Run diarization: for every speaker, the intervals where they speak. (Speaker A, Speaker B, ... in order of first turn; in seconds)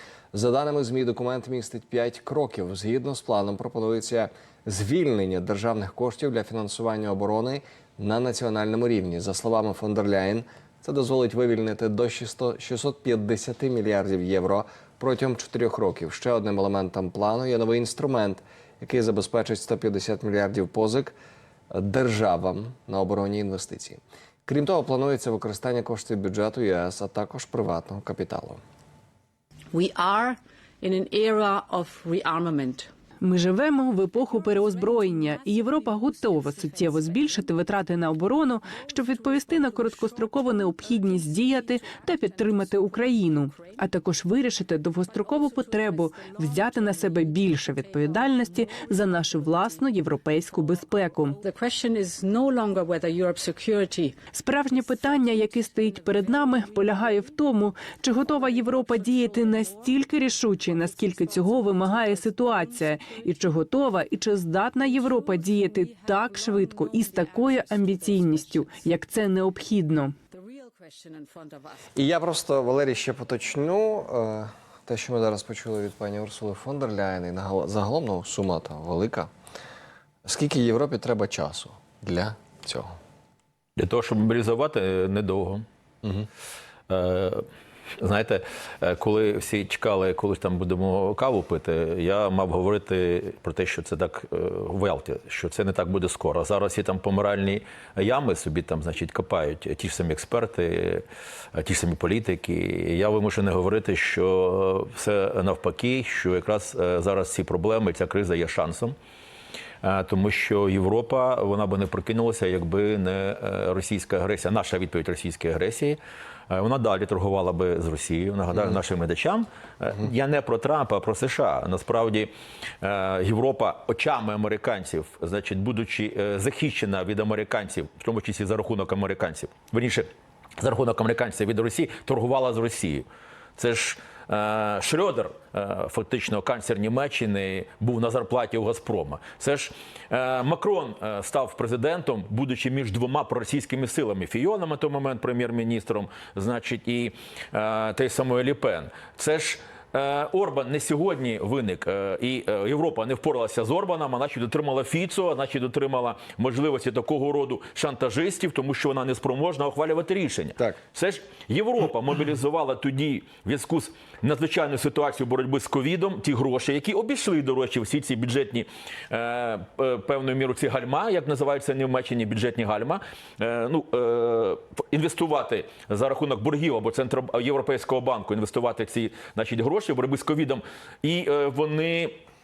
Speaker A: 0.3-21.1, 21.7-28.6, 71.9-79.3, 80.2-82.9
Speaker B: 29.7-32.9, 34.2-37.9, 38.6-57.4, 58.0-63.3, 64.9-69.0, 70.3-71.9
Speaker C: 33.2-51.4, 54.3-70.2
Speaker D: 83.8-85.6, 86.9-87.4, 88.0-108.9, 109.8-116.0, 116.5-122.3, 122.8-130.1, 130.6-133.1, 133.6-182.1